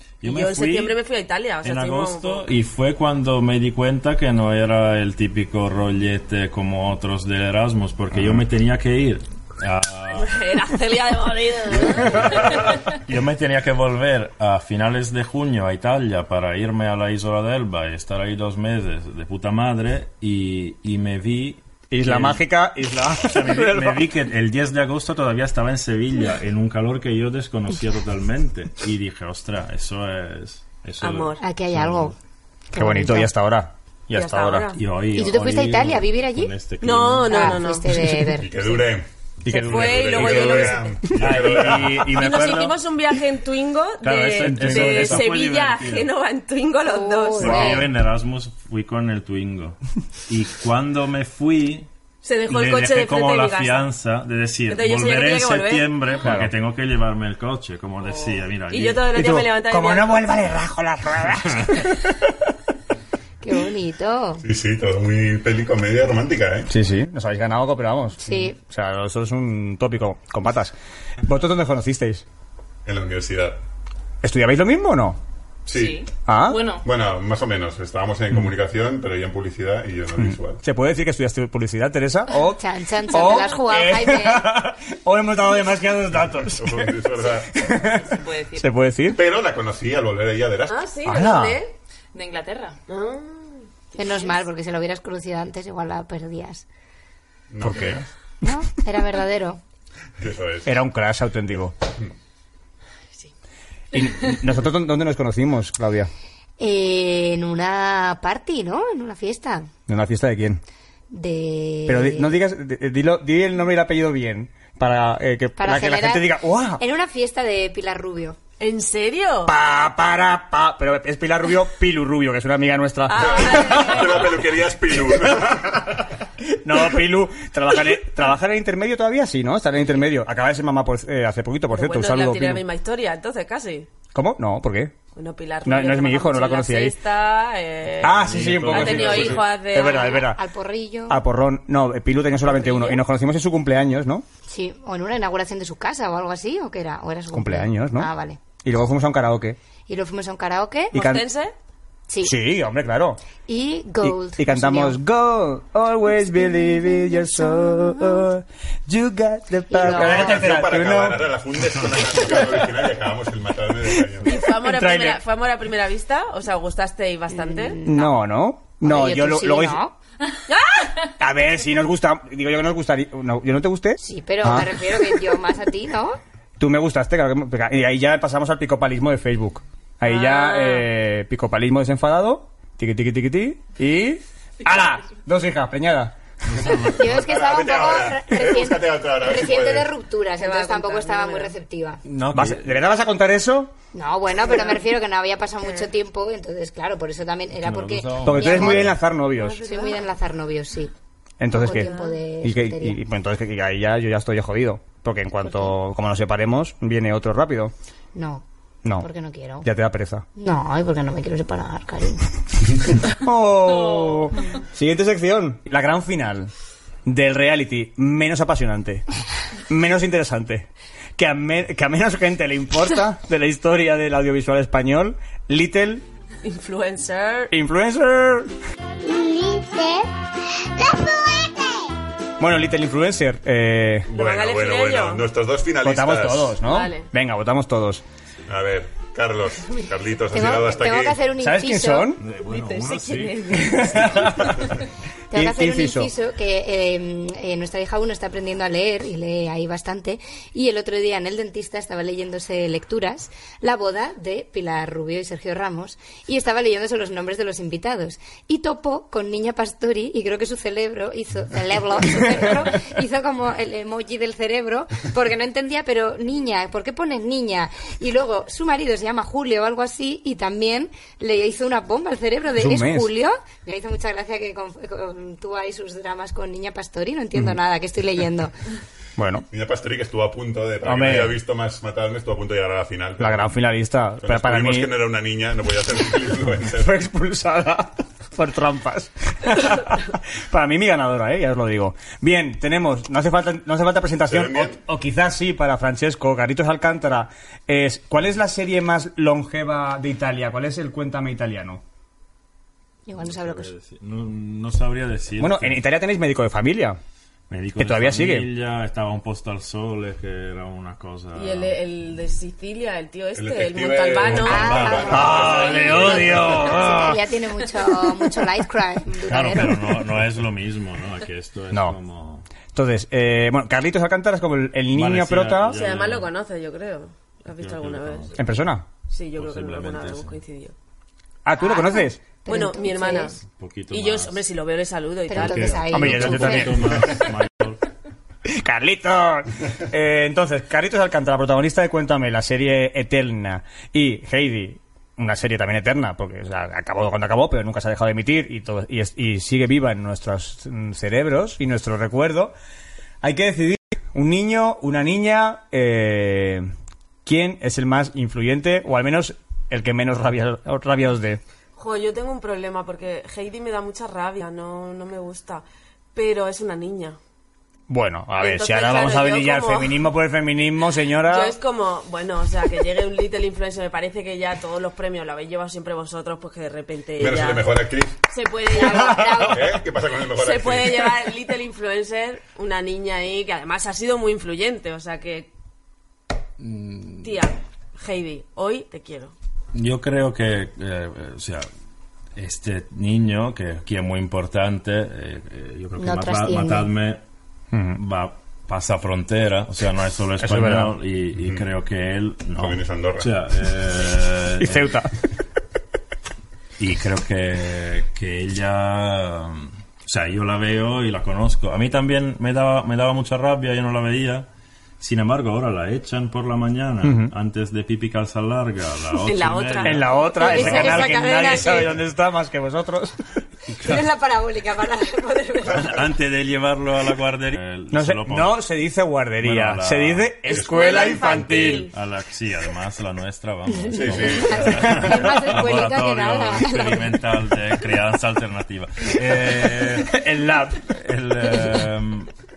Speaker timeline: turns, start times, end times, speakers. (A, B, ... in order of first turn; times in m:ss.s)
0:00.2-0:01.0 A
0:00.2-0:02.5 B
0:01.6-0:10.3 A
0:10.1-0:12.8 B
0:11.7-0:22.4 A
0:21.9-0:24.0 C
0:23.2-0:32.1 A
0:31.0-0:31.4 B
0:31.4-0:32.1 D
0:32.7-0:33.3 D
0:32.7-0:34.7 C
0:34.1-0:34.8 B
0:34.7-0:37.6 A
0:35.1-0:36.5 D
0:36.8-0:38.0 B
0:37.2-0:38.8 D
0:38.3-0:39.1 E
0:39.4-0:42.8 C
0:39.5-0:41.0 B
0:39.6-0:40.3 A
0:39.7-0:42.0 E
0:41.1-0:42.6 A
0:42.0-0:47.8 B
0:44.0-0:46.1 A
0:44.3-0:45.3 C
0:46.8-0:47.9 D
0:47.4-0:51.9 A
0:47.4-0:47.8 C
0:52.2-0:53.9 B
0:52.5-0:59.1 A
0:54.7-0:56.1 B
0:56.2-0:56.5 C
0:58.7-1:00.2 B
0:59.1-1:02.0 C
1:03.4-1:04.4 D
1:04.4-1:06.7 E
1:06.7-1:12.2 C
1:08.2-1:08.5 D
1:12.8-1:13.6 E
1:14.2-1:15.2 C
1:15.7-1:16.1 E
1:15.7-1:16.8 F
1:16.3-1:16.6 C
1:16.8-1:20.6 E
1:20.2-1:29.2 C
1:22.3-1:24.5 D
1:26.6-1:27.6 E
1:27.8-1:28.7 F
1:29.1-1:30.8 E
1:30.7-1:31.7 B
1:31.0-1:31.6 C
1:32.1-1:32.8 F
1:32.9-1:34.4 B
1:34.0-1:36.6 D
1:37.5-1:38.0 E
1:37.6-1:38.0 C
1:38.4-1:39.6 D
1:40.2-1:40.7 E
1:40.6-1:41.7 C
1:43.9-1:46.1 C
1:46.6-1:49.7 D
1:49.9-1:50.6 C
1:51.1-1:52.3 D
1:51.9-1:56.8 C
1:55.6-1:58.4 D
1:58.6-1:59.5 B
1:59.4-2:04.3 C
2:03.1-2:04.1 B
2:03.2-2:06.0 E
2:06.5-2:12.6 C
2:11.7-2:13.9 B
2:14.1-2:14.9 C
2:15.2-2:20.2 B
2:15.6-2:17.0 C
2:18.0-2:20.4 C
2:18.0-2:19.4 A
2:19.7-2:21.2 D
2:21.1-2:24.2 C
2:22.5-2:23.0 D
2:24.5-2:28.4 D
2:27.3-2:28.1 C
2:28.6-2:29.6 C
2:29.9-2:30.9 D
2:30.9-2:31.2 C
2:30.9-2:31.5 B
2:32.1-2:32.4 D
2:32.2-2:33.2 C
2:33.5-2:35.0 D
2:34.0-2:41.2 C
2:37.1-2:38.2 D
2:39.7-2:40.3 D
2:39.8-2:44.4 E
2:44.2-2:47.8 B
2:44.5-2:45.2 C
2:47.3-2:48.2 D
2:47.8-2:49.8 C
2:48.8-2:49.9 D
2:50.5-2:51.0 B
2:51.2-2:54.8 C
2:54.0-2:56.2 D
2:56.6-3:06.2 C
3:00.0-3:00.8 B
3:06.5-3:07.2 A
3:06.7-3:10.0 E
3:06.8-3:12.0 D
3:10.4-3:11.6 B
3:12.1-3:12.8 A
3:12.3-3:13.7 C
3:13.9-3:19.0 D
3:14.4-3:14.8 B
3:15.6-3:15.9 B
3:17.6-3:19.0 A
3:18.2-3:19.6 C
3:19.3-3:20.0 B
3:19.6-3:20.9 D
3:21.4-3:27.7 C
3:21.5-3:23.0 D
3:21.6-3:22.2 B
3:25.4-3:25.7 D
3:28.1-3:28.4 D
3:29.0-3:29.7 D
3:29.6-3:30.2 C
3:30.4-3:32.2 D
3:33.0-3:36.5 C
3:33.6-3:34.6 F
3:37.0-3:39.0 C
3:39.7-3:46.0 C
3:46.4-3:47.5 B
3:47.5-3:48.5 C
3:49.0-3:50.1 G
3:50.6-3:52.0 G
3:52.4-3:54.1 C
3:54.1-3:56.6 E
3:54.1-3:55.2 B
3:55.8-3:58.0 C
3:56.6-3:57.1 B
3:58.5-4:01.2 E
4:00.3-4:02.2 D
4:01.4-4:02.2 C
4:02.2-4:04.8 A
4:02.3-4:04.4 B
4:03.5-4:04.6 C
4:05.3-4:38.5 D
4:05.3-4:06.1 C
4:32.6-4:33.1 C
4:39.2-4:39.4 C
4:39.5-4:43.5 E
4:40.8-4:41.4 C
4:43.2-4:44.9 C
4:44.2-4:47.0 E
4:46.7-5:01.8 C
4:54.2-4:54.8 E
5:03.0-5:03.7 D
5:03.1-5:05.8 A
5:05.4-5:07.0 C
5:07.5-5:11.8 A
5:07.8-5:08.5 C
5:11.3-5:16.8 B
5:13.4-5:16.3 E
5:14.3-5:16.9 A
5:14.4-5:20.0 D
5:15.1-5:17.2 C
5:19.2-5:22.4 A
5:22.7-5:25.8 C
5:24.9-5:26.3 A
5:25.7-5:28.4 B
5:27.5-5:28.4 A
5:28.4-5:28.8 C
5:29.1-5:30.7 B
5:29.4-5:30.4 A
5:31.4-5:32.2 C
5:31.6-5:33.4 D
5:32.5-5:36.2 B
5:33.4-5:34.4 A
5:35.3-5:36.8 D
5:35.3-5:37.8 A
5:35.9-5:37.2 C
5:38.4-5:52.5 C
5:53.2-5:56.7 C
5:57.2-6:01.4 C
6:01.8-6:07.2 B
6:07.9-6:11.6 C
6:08.3-6:10.0 B
6:11.2-6:17.7 B
6:17.2-6:18.2 E
6:18.3-6:19.6 B
6:18.8-6:19.7 D
6:19.4-6:21.0 E
6:20.3-6:25.5 B
6:26.6-6:27.4 A
6:27.2-6:29.3 B
6:29.7-6:31.7 A
6:32.4-6:37.2 A
6:36.0-6:36.9 D
6:37.7-6:38.0 C
6:37.9-6:45.0 A
6:40.4-6:40.9 C
6:41.4-6:41.6 E
6:42.5-6:43.3 E
6:44.6-6:45.1 C
6:46.8-6:54.5 A
6:55.0-7:01.0 A
6:57.0-6:57.3 C
6:59.1-7:01.9 B
6:59.8-7:03.2 C
7:00.3-7:01.9 D
7:03.7-7:06.0 D
7:05.7-7:08.6 A
7:07.9-7:11.9 C
7:09.4-7:10.6 A
7:10.4-7:11.9 B
7:10.7-7:11.2 E
7:11.2-7:20.2 A
7:13.7-7:17.3 D
7:13.9-7:15.0 E
7:20.0-7:20.9 C
7:20.9-7:22.3 A